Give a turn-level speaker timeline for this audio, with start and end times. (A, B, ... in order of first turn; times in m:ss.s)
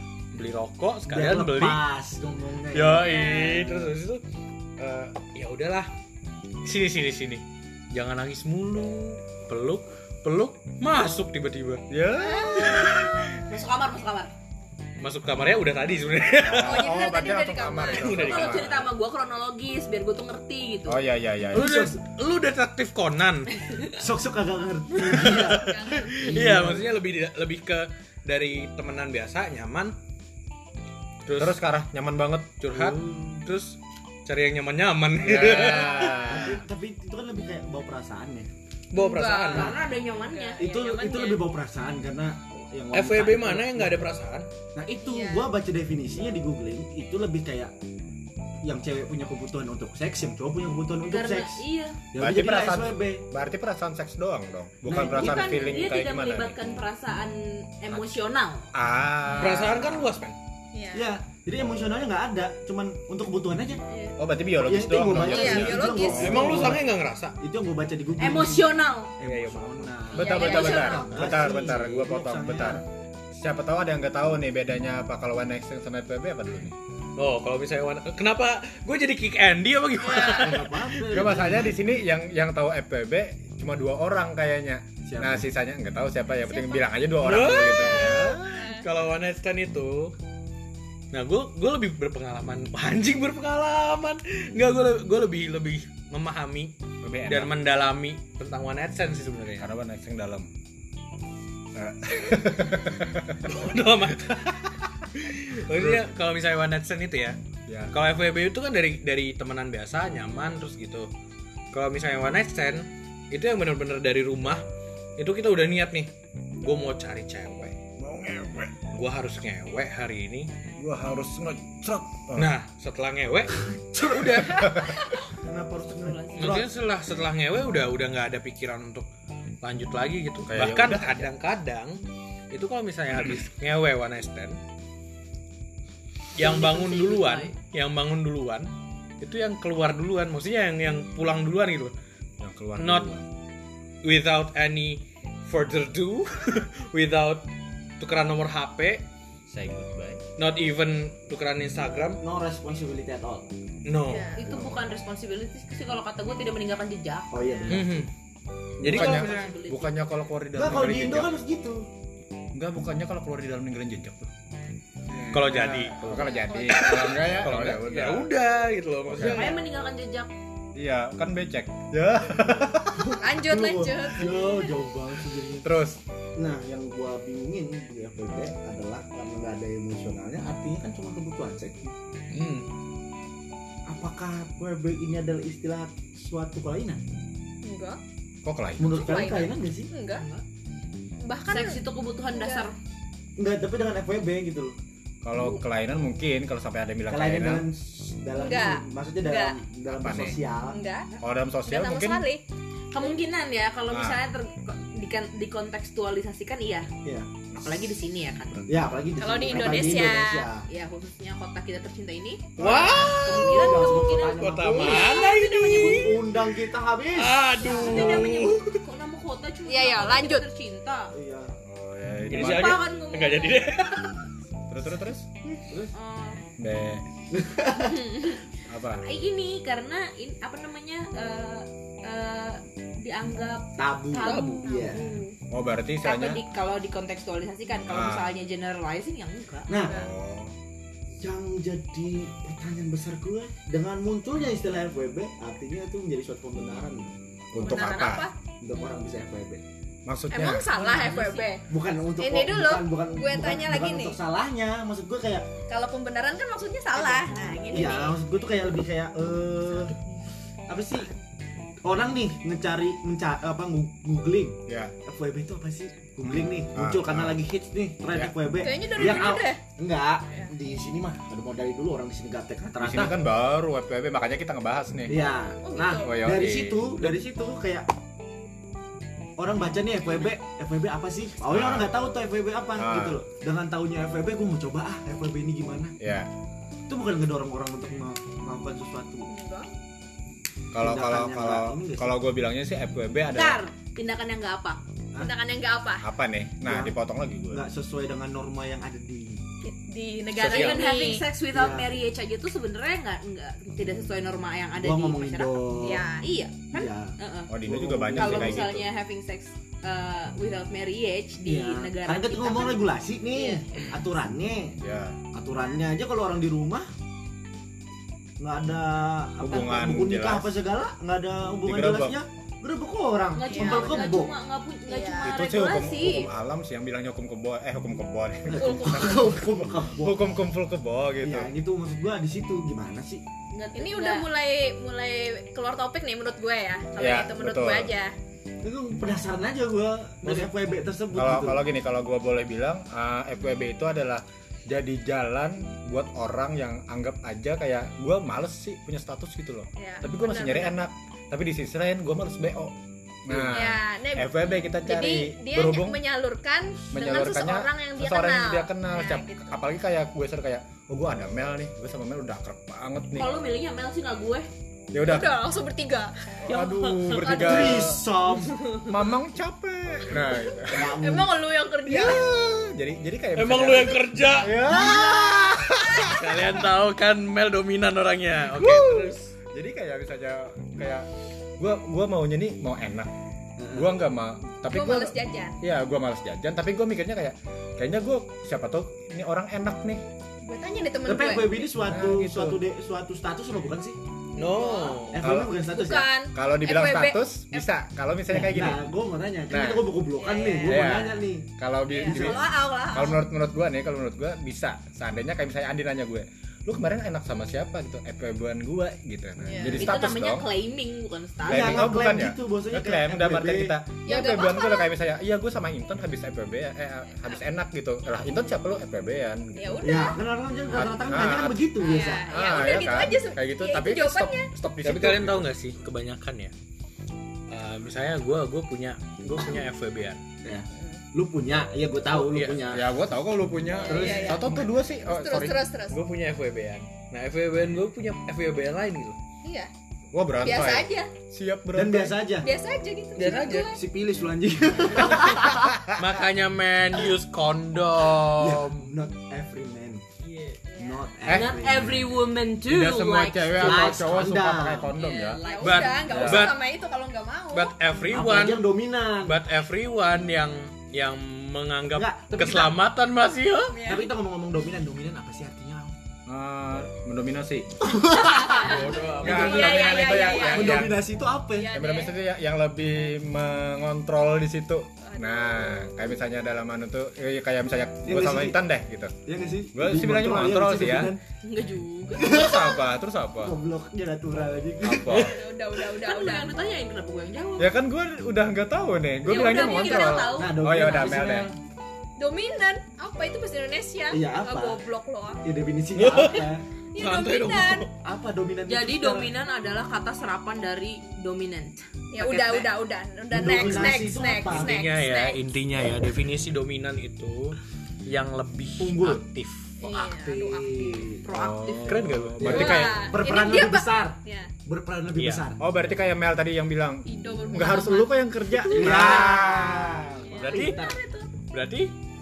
0:00.3-0:01.8 A
0:01.1-0:03.0 B
0:02.7-0:04.2 A
0:03.0-0:03.6 C
0:04.8-0:05.9 A
0:06.6-0:11.8 A
0:11.9-0:13.0 D
0:12.4-0:12.8 C
0:12.6-0:13.1 A
0:13.4-0:14.3 E
0:15.0-0:16.8 A
0:16.4-0:18.8 D
0:16.6-0:18.1 C
0:17.9-0:18.8 A
0:18.1-0:21.0 E
0:20.8-0:21.7 D
0:21.5-0:22.0 B
0:21.5-0:23.5 A
0:23.9-0:26.9 B
0:25.0-0:30.0 A
0:25.5-0:26.2 C
0:31.2-0:31.6 A
0:31.4-0:32.6 D
0:32.6-0:36.4 A
0:32.7-0:33.4 B
0:35.2-0:36.6 D
0:36.0-0:38.5 B
0:38.9-0:39.7 A
0:38.9-0:41.4 C
0:39.5-0:40.6 E
0:39.5-0:39.8 B
0:40.6-0:44.0 B
0:42.9-0:44.5 A
0:44.7-0:47.7 B
0:45.0-0:45.5 C
0:48.6-0:53.2 B
0:51.1-0:52.0 E
0:52.2-0:56.6 D
0:54.9-0:55.6 B
0:55.0-0:58.7 E
0:58.7-1:00.0 D
0:59.3-1:00.4 A
1:00.7-1:01.1 C
1:00.9-1:03.8 B
1:04.2-1:06.7 D
1:04.6-1:12.8 B
1:05.2-1:06.4 C
1:06.1-1:07.4 A
1:08.2-1:09.1 E
1:09.2-1:10.1 A
1:10.1-1:11.1 C
1:10.1-1:16.7 D
1:11.1-1:11.7 A
1:17.2-1:21.3 A
1:20.0-1:20.5 C
1:20.2-1:21.8 B
1:21.1-1:28.6 D
1:25.0-1:25.4 B
1:26.4-1:28.9 C
1:27.2-1:30.1 A
1:31.1-1:36.7 A
1:37.0-1:37.6 D
1:37.2-1:39.7 A
1:39.6-1:40.5 D
1:41.7-1:43.6 D
1:43.4-1:44.6 A
1:45.1-1:47.4 A
1:45.7-1:46.0 D
1:47.7-1:47.9 D
1:47.9-1:51.1 A
1:51.7-1:54.6 A
1:55.2-1:57.8 A
1:58.0-1:58.8 D
1:58.9-2:00.5 A
2:00.8-2:02.5 D
2:02.3-2:04.8 A
2:04.4-2:05.0 D
2:05.3-2:06.7 B
2:06.0-2:06.6 E
2:06.4-2:09.1 A
2:09.6-2:14.6 A
2:10.5-2:11.3 D
2:16.4-2:21.9 A
2:16.4-2:17.5 E
2:22.4-2:23.2 D
2:22.8-2:23.1 A
2:24.0-2:27.5 A
2:28.0-2:29.0 A
2:29.5-2:30.2 D
2:30.4-2:32.2 A
2:32.2-2:33.5 B
2:33.8-2:34.3 A
2:34.1-2:34.4 C
2:34.3-2:37.7 E
2:34.4-2:34.8 D
2:37.3-2:38.0 B
2:37.5-2:37.8 C
2:37.7-2:38.1 A
2:38.8-2:41.3 D
2:38.8-2:39.5 A
2:38.8-2:39.9 E
2:40.6-2:41.8 B
2:42.5-2:44.3 D
2:45.1-2:48.3 D
2:45.3-2:49.6 A
2:46.4-2:47.0 E
2:49.1-2:49.6 D
2:49.2-2:50.3 E
2:50.7-2:53.2 D
2:52.9-2:55.7 B
2:53.2-2:54.7 C
2:55.6-2:56.0 D
2:56.4-3:01.9 B
3:02.3-3:02.7 A
3:03.9-3:07.0 B
3:07.6-3:08.0 C
3:08.4-3:09.0 D
3:08.8-3:09.9 B
3:08.8-3:10.2 C
3:10.1-3:10.4 E
3:11.2-3:12.7 C
3:11.5-3:12.8 E
3:13.4-3:14.7 B
3:15.2-3:17.6 D
3:17.1-3:20.8 B
3:18.4-3:19.6 C
3:19.9-3:20.4 D
3:20.7-3:21.1 C
3:21.2-3:22.2 D
3:21.6-3:22.4 C
3:22.9-3:26.9 E
3:23.9-3:24.2 D
3:27.6-3:28.8 E
3:28.7-3:30.6 B
3:29.2-3:30.5 C
3:30.7-3:32.5 E
3:32.6-3:36.4 A
3:32.6-3:33.4 D
3:32.6-3:38.6 B
3:33.2-3:36.1 E
3:35.1-3:35.3 C
3:37.2-3:38.8 A
3:37.6-3:41.1 E
3:39.6-3:40.5 C
3:41.1-3:41.5 B
3:41.6-3:42.8 D
3:42.3-3:44.2 A
3:42.3-3:43.7 E
3:44.7-3:45.3 D
3:45.5-3:45.9 B
3:45.9-3:46.4 E
3:46.6-3:47.0 D
3:47.3-3:48.1 B
3:47.7-3:48.4 E
3:48.7-3:49.0 D
3:49.0-3:55.3 E
3:53.8-3:55.1 B
3:54.3-3:55.1 C
3:55.5-3:56.4 D
3:56.0-3:59.7 E
3:57.9-3:58.3 D
3:59.7-4:00.0 B
3:59.8-4:00.5 D
4:01.2-4:07.1 B
4:07.5-4:08.3 D
4:07.6-4:08.3 C
4:08.6-4:09.6 B
4:10.0-4:10.7 D
4:10.3-4:11.6 C
4:10.7-4:11.5 E
4:11.7-4:15.5 B
4:12.2-4:14.2 C
4:15.7-4:18.1 C
4:16.9-4:18.1 E
4:17.7-4:19.9 B
4:19.7-4:20.0 E
4:20.7-4:21.1 B
4:21.8-4:33.2 B
4:24.7-4:24.9 D
4:26.2-4:27.4 D
4:28.6-4:29.6 C
4:29.0-4:29.3 D
4:32.8-4:35.2 D
4:35.1-4:37.8 B
4:35.6-4:36.2 C
4:36.0-4:37.2 D
4:39.4-4:46.0 B
4:41.5-4:41.9 D
4:42.8-4:43.2 D
4:46.0-4:46.3 D
4:46.9-4:49.3 B
4:49.3-4:49.7 C
4:50.7-4:53.6 D
4:50.7-4:52.1 B
4:53.3-4:54.8 E
4:55.2-4:56.0 C
4:56.0-4:57.6 D
4:56.6-4:56.9 B
4:57.5-4:59.4 B
4:59.6-5:01.2 C
5:00.4-5:00.8 D
5:00.4-5:05.6 E
5:01.5-5:01.9 B
5:04.8-5:06.0 B
5:05.8-5:06.3 C
5:06.2-5:07.5 E
5:06.7-5:08.6 B
5:07.5-5:08.8 D
5:08.2-5:13.9 E
5:11.4-5:14.8 B
5:14.8-5:15.2 D
5:15.3-5:16.9 B
5:18.4-5:24.3 B
5:19.4-5:20.6 D
5:21.6-5:22.2 D
5:23.3-5:26.3 E
5:23.4-5:24.2 C
5:24.9-5:25.8 C
5:25.2-5:31.5 D
5:28.5-5:30.2 B
5:28.6-5:29.1 C
5:31.2-5:33.2 B
5:33.5-5:34.3 E
5:33.7-5:38.1 C
5:37.0-5:37.9 D
5:38.6-5:41.6 B
5:40.2-5:40.5 A
5:41.1-5:56.0 D
5:49.8-5:50.8 C
5:53.5-5:59.5 C
5:56.9-6:03.3 D
6:03.1-6:04.5 E
6:04.9-6:05.4 D
6:05.0-6:06.1 C
6:06.4-6:07.2 E
6:06.5-6:08.0 D
6:07.2-6:07.9 C
6:07.3-6:08.6 B
6:08.3-6:08.8 E
6:08.8-6:10.9 D
6:10.7-6:11.4 B
6:11.0-6:12.3 C
6:11.8-6:16.6 D
6:13.4-6:15.3 A
6:14.6-6:15.0 B
6:16.0-6:19.3 A
6:18.5-6:21.1 D
6:21.6-6:23.1 D
6:23.6-6:23.9 B
6:23.7-6:30.0 D
6:24.7-6:25.6 C
6:30.4-6:31.7 C
6:31.0-6:34.0 B
6:31.8-6:32.6 D
6:34.4-6:35.1 C
6:34.4-6:35.2 A
6:35.1-6:36.1 B
6:35.2-6:35.6 D
6:35.6-6:37.6 C
6:36.3-6:38.8 D
6:38.3-6:41.4 B
6:39.5-6:40.0 D
6:40.2-6:40.8 C
6:40.2-6:40.7 E
6:40.6-6:50.5 D
6:41.9-6:43.2 C
6:42.0-6:42.4 B
6:49.4-6:49.8 C
6:49.7-6:52.1 E
6:51.4-6:53.7 B
6:51.4-6:59.7 D
6:54.0-6:54.9 C
6:59.5-7:00.2 C
6:59.8-7:02.3 B
7:00.7-7:05.5 D
7:01.8-7:04.5 C
7:04.8-7:06.5 A
7:07.5-7:10.2 A
7:10.4-7:13.0 B
7:10.7-7:11.0 C
7:12.1-7:12.6 A
7:12.7-7:15.7 D
7:13.8-7:16.0 C
7:13.8-7:14.5 B
7:15.9-7:19.2 A
7:19.4-7:19.7 C
7:20.1-7:22.2 D
7:20.4-7:21.1 C
7:21.7-7:22.5 B
7:22.4-7:23.8 C
7:23.2-7:23.8 A
7:23.7-7:25.8 B
7:25.3-7:25.6 D
7:26.0-7:28.9 A
7:28.4-7:30.0 B
7:30.2-7:30.6 E
7:30.7-7:31.1 C
7:30.8-7:32.1 B
7:31.2-7:31.5 D
7:31.2-7:34.0 E
7:32.7-7:35.4 D
7:33.6-7:34.9 B
7:34.9-7:36.0 E
7:35.4-7:37.7 C
7:35.6-7:36.6 A
7:36.1-7:36.5 D
7:37.5-7:38.7 A
7:38.1-7:39.4 B
7:39.2-7:43.8 A
7:41.9-7:42.8 B
7:43.7-7:44.1 C
7:43.8-7:46.0 B
7:46.3-7:47.9 D
7:47.8-7:51.8 B
7:48.2-7:50.9 C
7:48.5-7:49.9 A
7:49.1-7:51.0 D
7:51.5-7:52.2 C
7:51.7-7:59.2 D
7:55.0-7:55.7 C
7:58.0-7:58.6 B
7:59.2-8:01.2 B
7:59.7-8:01.1 D
8:01.4-8:02.3 E
8:02.2-8:02.8 B
8:02.2-8:03.6 D
8:03.4-8:05.3 B
8:04.8-8:05.4 D
8:05.1-8:06.5 C
8:06.0-8:07.7 E
8:07.6-8:11.5 D
8:09.2-8:11.3 E
8:09.3-8:10.3 C
8:10.3-8:11.5 B
8:12.2-8:15.4 C
8:14.1-8:14.8 B
8:15.4-8:16.6 B
8:16.0-8:17.9 A
8:16.9-8:17.9 C
8:18.0-8:19.3 B
8:18.7-8:22.7 E
8:22.1-8:25.4 C
8:23.3-8:24.7 B
8:24.5-8:29.9 A
8:28.8-8:29.2 B
8:29.8-8:31.2 C
8:29.8-8:31.2 B
8:31.2-8:32.1 E
8:31.3-8:33.2 D
8:31.8-8:32.9 A
8:32.4-8:35.6 B
8:32.5-8:34.5 C
8:35.1-8:35.4 A
8:35.6-8:40.0 D
8:37.0-8:39.7 C
8:38.7-8:41.0 B
8:40.3-8:41.3 C
8:40.4-8:40.8 A
8:41.5-8:41.9 A